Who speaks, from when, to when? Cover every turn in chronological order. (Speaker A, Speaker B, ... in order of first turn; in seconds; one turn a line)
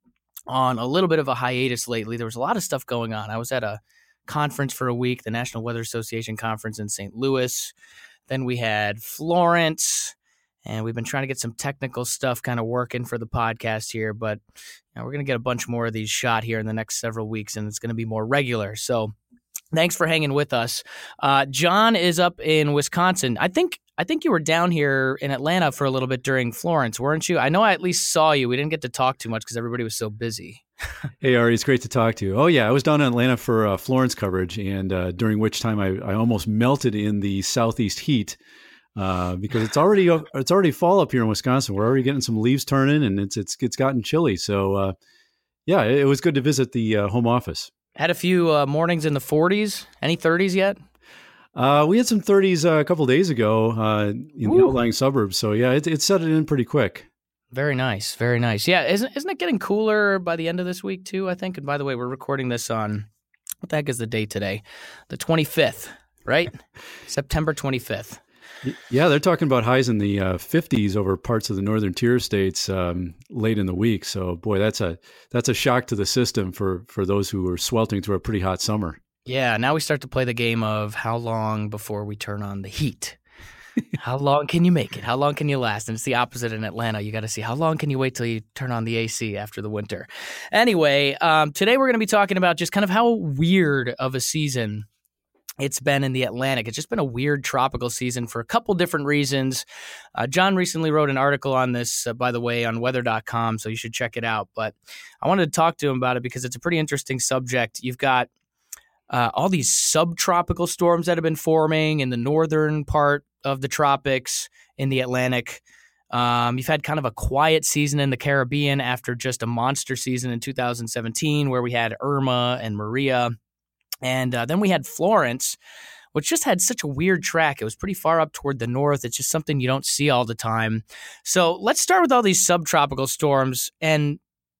Speaker A: 0.5-7.7
Speaker A: 8.3-14.4
Speaker A: 14.9-19.1
Speaker A: 19.7-30.6
Speaker B: 31.2-38.4
Speaker B: 39.0-44.9
Speaker B: 45.7-47.7
Speaker A: 48.0-50.8
Speaker B: 51.5-57.1
Speaker A: 54.4-54.7
Speaker A: 57.5-63.1
Speaker A: 63.6-66.5
Speaker A: 67.0-68.2
Speaker B: 68.6-79.0
Speaker A: 79.2-83.2
Speaker A: 84.0-94.9
Speaker A: 95.6-99.6
Speaker A: 100.2-108.3
Speaker A: 109.1-123.3
Speaker A: 124.0-125.6
Speaker A: 126.1-134.2